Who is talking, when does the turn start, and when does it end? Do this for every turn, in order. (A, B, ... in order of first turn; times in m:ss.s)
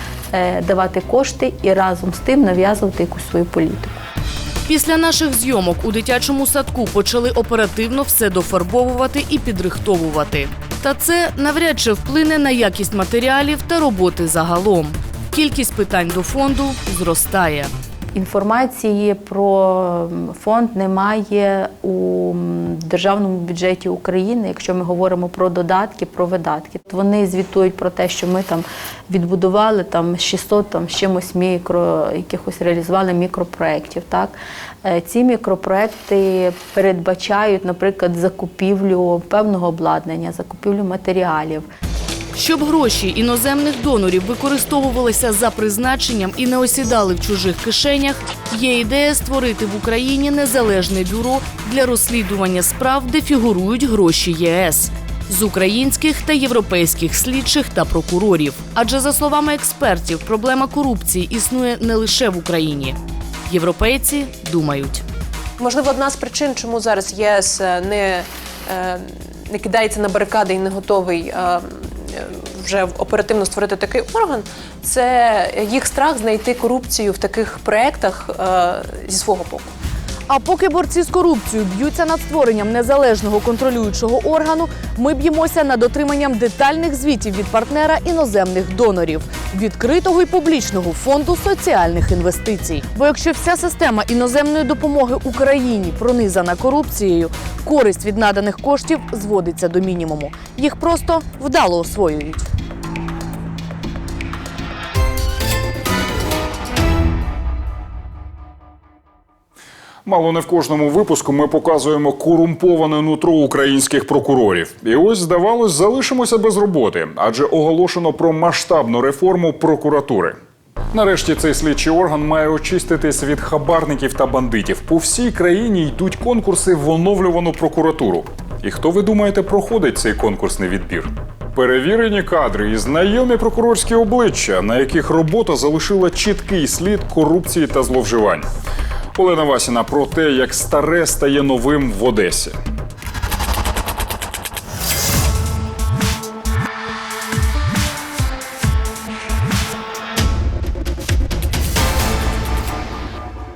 0:00.3-0:04.0 A
0:04.6-0:17.7 B
0:18.1-0:41.7 A
0:42.3-1:05.0 B
1:05.6-1:19.7 C
1:20.3-1:42.4 B
1:50.0-2:00.4 D
2:00.9-2:18.5 D
2:19.1-2:22.6 D